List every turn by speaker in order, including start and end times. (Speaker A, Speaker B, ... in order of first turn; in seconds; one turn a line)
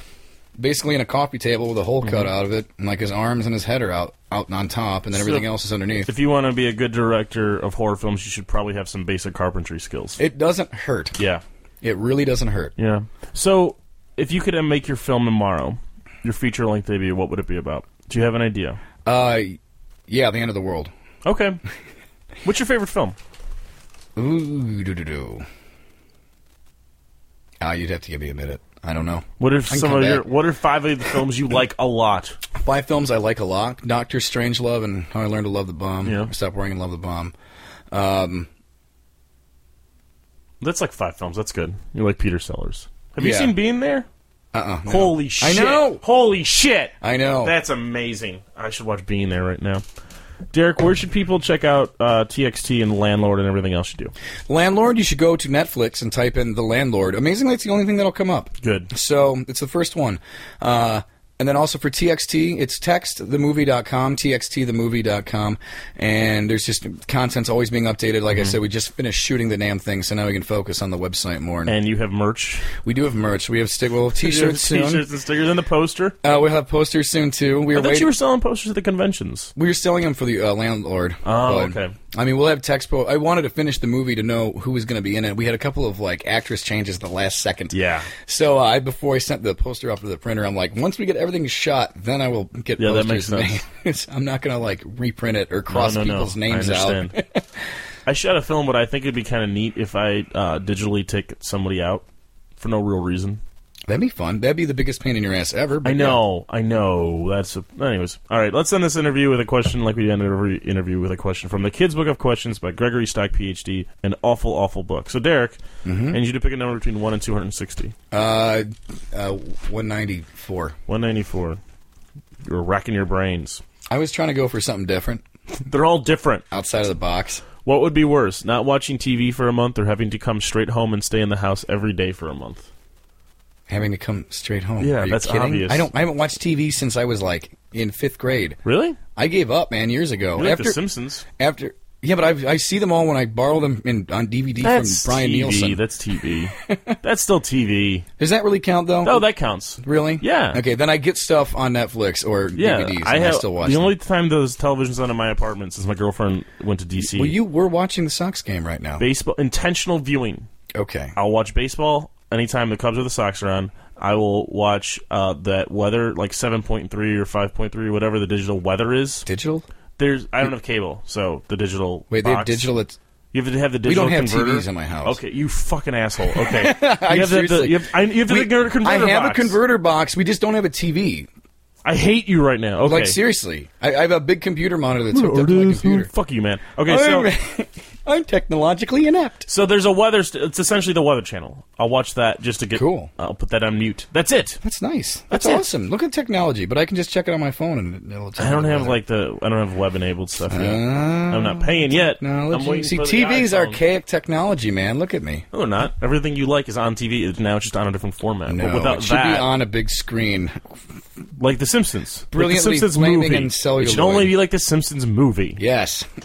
Speaker A: 0.6-6.1
Speaker B: 2.0-2.3
Speaker B: 5.1-5.5
Speaker B: 6.1-10.2
Speaker A: 10.2-11.2
Speaker B: 11.2-11.4
Speaker A: 11.8-12.7
Speaker B: 12.8-18.8
Speaker A: 19.1-20.9
Speaker B: 21.2-21.6
Speaker B: 22.4-23.2
Speaker A: 24.2-25.4
Speaker A: 27.6-30.3
Speaker B: 29.4-32.4
Speaker A: 32.5-37.3
Speaker B: 36.0-36.3
Speaker A: 37.9-38.5
Speaker B: 40.6-44.1
Speaker A: 43.2-43.5
Speaker A: 44.5-46.0
Speaker B: 44.9-49.8
Speaker A: 47.0-47.5
Speaker B: 50.5-54.1
Speaker A: 54.5-71.8
Speaker B: 58.6-58.9
Speaker B: 71.7-72.7
Speaker A: 72.7-75.0
Speaker B: 74.2-76.2
Speaker A: 76.2-78.1
Speaker B: 77.7-79.5
Speaker A: 79.6-97.5
Speaker B: 81.2-82.0
Speaker B: 87.7-88.1
Speaker B: 92.8-93.6
Speaker B: 95.7-97.2
Speaker B: 98.1-102.0
Speaker B: 102.6-103.4
Speaker A: 103.9-106.2
Speaker B: 105.8-115.6
Speaker A: 115.8-116.2
Speaker B: 116.1-117.9
Speaker A: 118.1-120.8
Speaker B: 120.9-121.6
Speaker B: 122.5-123.6
Speaker A: 123.9-125.2
Speaker B: 125.7-126.4
Speaker A: 126.5-127.5
Speaker B: 127.6-132.7
Speaker A: 133.7-138.6
Speaker B: 134.8-135.9
Speaker B: 138.7-139.0
Speaker A: 139.2-140.8
Speaker B: 140.4-141.2
Speaker A: 141.3-145.8
Speaker B: 144.6-148.1
Speaker A: 146.6-147.0
Speaker A: 148.2-149.3
Speaker B: 149.0-150.6
Speaker A: 149.8-153.9
Speaker B: 152.6-157.4
Speaker A: 157.0-159.0
Speaker B: 159.0-160.5
Speaker A: 160.7-161.1
Speaker B: 161.2-169.3
Speaker A: 169.3-169.7
Speaker B: 170.0-172.7
Speaker A: 172.1-173.0
Speaker B: 173.3-179.6
Speaker A: 173.8-175.2
Speaker A: 176.3-181.3
Speaker B: 181.8-183.2
Speaker A: 182.8-186.1
Speaker B: 185.1-187.3
Speaker A: 186.8-189.5
Speaker B: 189.5-194.6
Speaker A: 192.8-193.1
Speaker A: 194.6-199.0
Speaker B: 195.3-195.7
Speaker B: 198.4-203.8
Speaker A: 200.5-205.4
Speaker B: 205.5-209.5
Speaker A: 208.5-210.8
Speaker B: 211.4-215.6
Speaker A: 212.3-214.3
Speaker A: 215.6-216.1